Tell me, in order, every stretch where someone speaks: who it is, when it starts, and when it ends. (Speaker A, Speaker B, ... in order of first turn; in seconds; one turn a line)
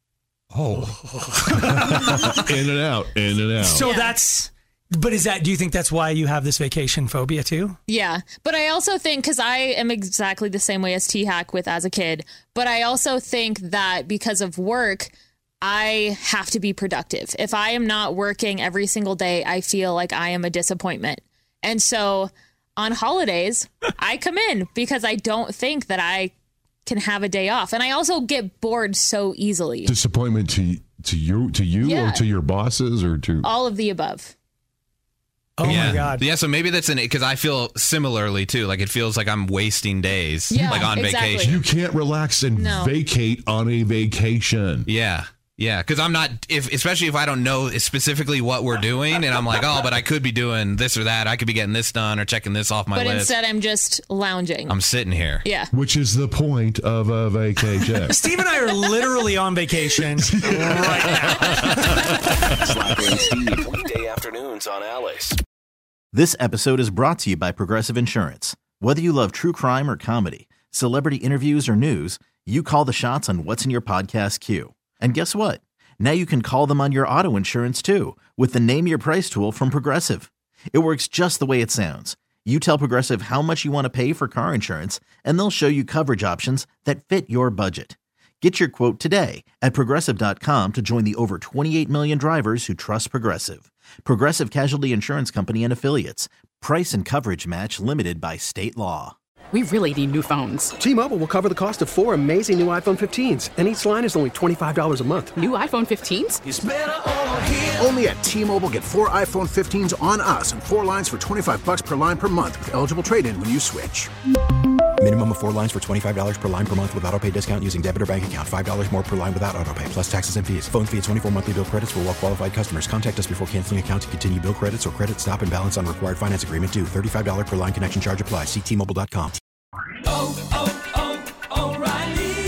Speaker A: 0.5-0.9
Speaker B: 1.0-2.6
Speaker C: 1.9-3.8
Speaker B: 3.5-7.8
Speaker D: 3.7-4.2
Speaker D: 7.9-26.3
Speaker D: 26.9-29.9
Speaker C: 29.8-33.5
Speaker D: 31.8-32.2
Speaker D: 33.4-34.3
Speaker B: 35.6-36.2
Speaker A: 35.6-41.6
Speaker C: 35.7-36.1
Speaker D: 40.5-41.6
Speaker C: 41.4-44.9
Speaker D: 42.5-42.9
Speaker A: 44.9-53.4
Speaker D: 52.9-54.8
Speaker A: 54.7-55.5
Speaker D: 55.4-55.7
Speaker C: 55.7-58.2
Speaker B: 58.1-62.5
Speaker C: 60.0-62.6
Speaker E: 62.6-65.4
Speaker F: 66.1-99.2
Speaker G: 99.5-100.7
Speaker H: 100.8-105.4
Speaker G: 105.3-106.4
Speaker I: 107.8-114.1
Speaker J: 115.0-129.4